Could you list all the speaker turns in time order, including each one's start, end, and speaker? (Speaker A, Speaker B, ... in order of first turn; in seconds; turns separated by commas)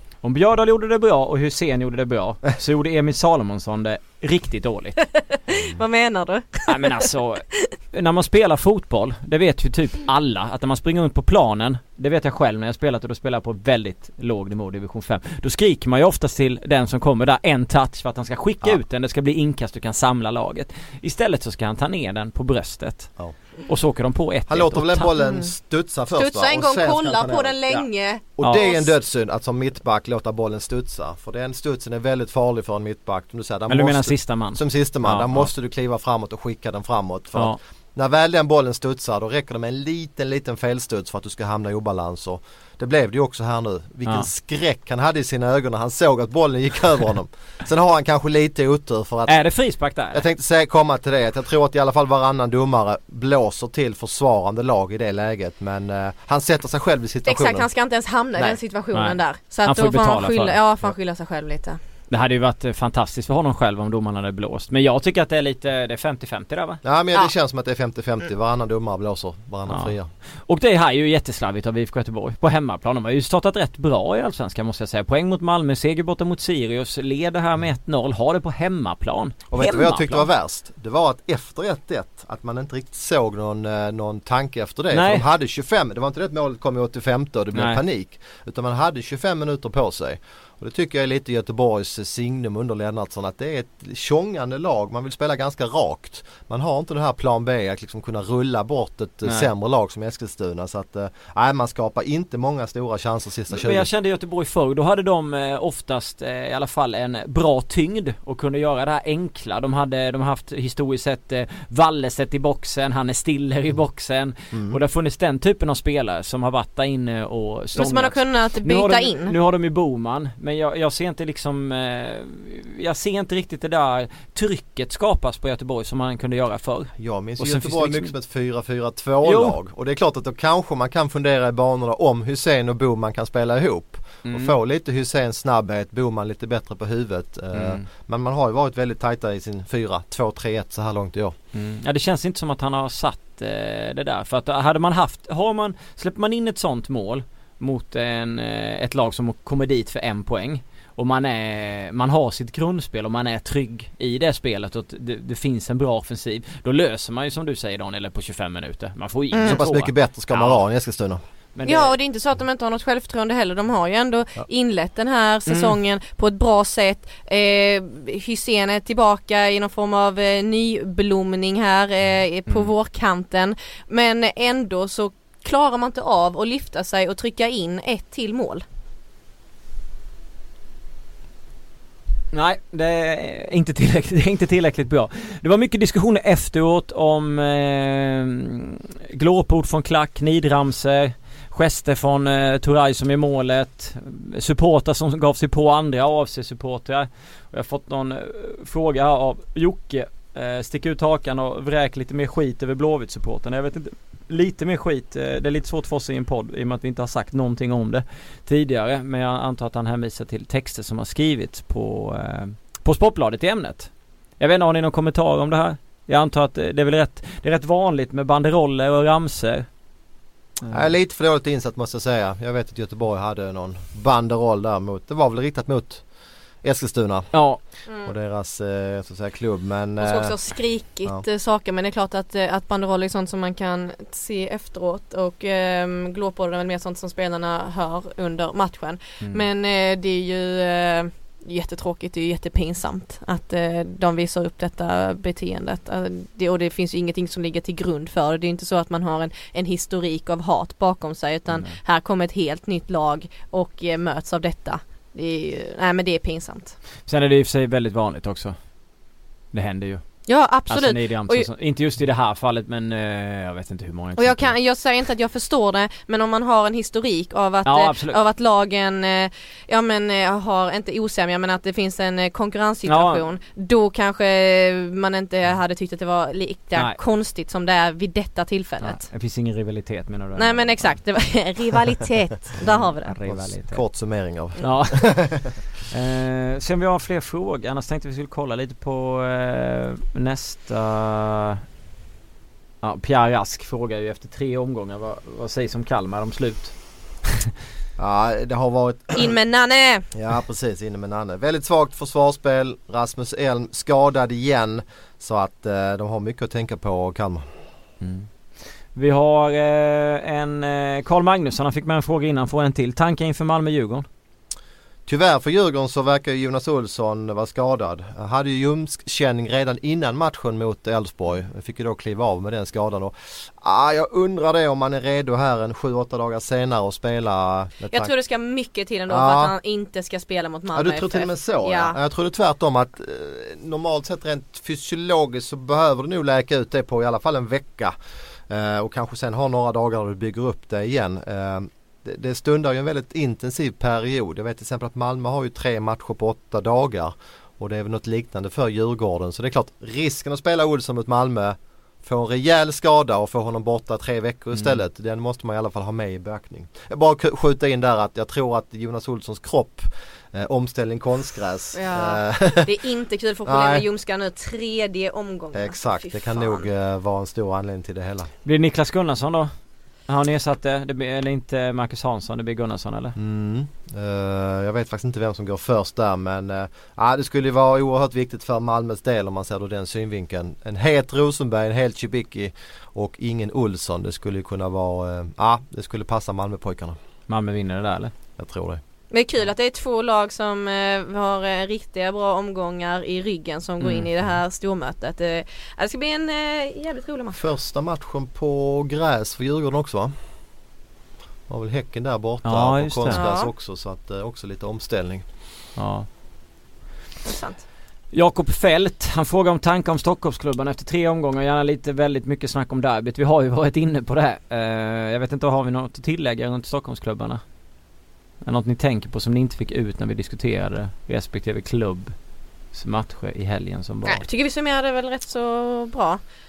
Speaker A: 0.2-5.0, Speaker B: 5.0-7.1, Speaker A: 6.7-25.1, Speaker C: 24.5-49.4, Speaker B: 25.2-25.5, Speaker B: 26.1-28.9, Speaker A: 33.7-35.5, Speaker A: 49.2-50.2, Speaker C: 50.1-57.6, Speaker B: 57.2-61.8, Speaker A: 58.9-60.5, Speaker A: 62.1-66.8, Speaker C: 66.8-70.1, Speaker A: 69.7-80.2, Speaker C: 79.5-103.9, Speaker A: 84.9-85.2, Speaker A: 87.5-87.8, Speaker A: 103.5-128.1, Speaker C: 114.5-114.8, Speaker B: 117.7-119.3, Speaker C: 127.0-141.3, Speaker A: 129.2-129.6, Speaker A: 134.2-134.6, Speaker A: 137.5-137.8, Speaker A: 141.5-160.6, Speaker B: 159.3-159.6, Speaker C: 159.4-161.2, Speaker A: 161.5-161.9, Speaker B: 161.7-178.6, Speaker A: 165.5-165.7, Speaker A: 182.3-219.7, Speaker A: 220.6-220.9, Speaker C: 220.7-226.1, Speaker C: 226.6-230.4, Speaker A: 227.3-227.6, Speaker B: 227.9-228.1, Speaker B: 230.0-256.8, Speaker A: 257.0-258.7, Speaker A: 259.5-264.5, Speaker B: 260.2-261.5, Speaker B: 264.2-279.1, Speaker A: 267.6-268.2, Speaker A: 272.9-273.2, Speaker A: 278.8-280.9, Speaker B: 280.4-283.1, Speaker A: 282.6-283.8, Speaker C: 283.2-285.6, Speaker A: 284.6-285.3, Speaker A: 285.9-291.6, Speaker A: 292.8-297.3, Speaker C: 298.0-299.2, Speaker B: 299.1-300.1, Speaker C: 300.1-307.6, Speaker A: 308.0-308.3, Speaker A: 308.9-314.1, Speaker C: 315.1-328.1, Speaker B: 327.9-332.0, Speaker C: 329.1-329.5, Speaker C: 330.7-337.9, Speaker C: 338.5-362.7, Speaker A: 354.5-354.8, Speaker B: 361.7-366.6, Speaker C: 363.4-363.8, Speaker C: 365.5-368.3, Speaker A: 368.4-369.5, Speaker A: 370.1-373.1, Speaker C: 373.1-386.9, Speaker A: 387.3-388.1, Speaker C: 388.4-388.8, Speaker B: 389.1-397.4, Speaker A: 393.8-394.1, Speaker C: 397.4-400.1, Speaker C: 401.5-405.2, Speaker A: 402.4-403.2, Speaker B: 403.1-403.5, Speaker A: 405.8-406.1, Speaker B: 407.2-407.6, Speaker A: 408.1-417.4, Speaker A: 418.4-422.2, Speaker A: 422.7-424.2, Speaker B: 424.0-426.2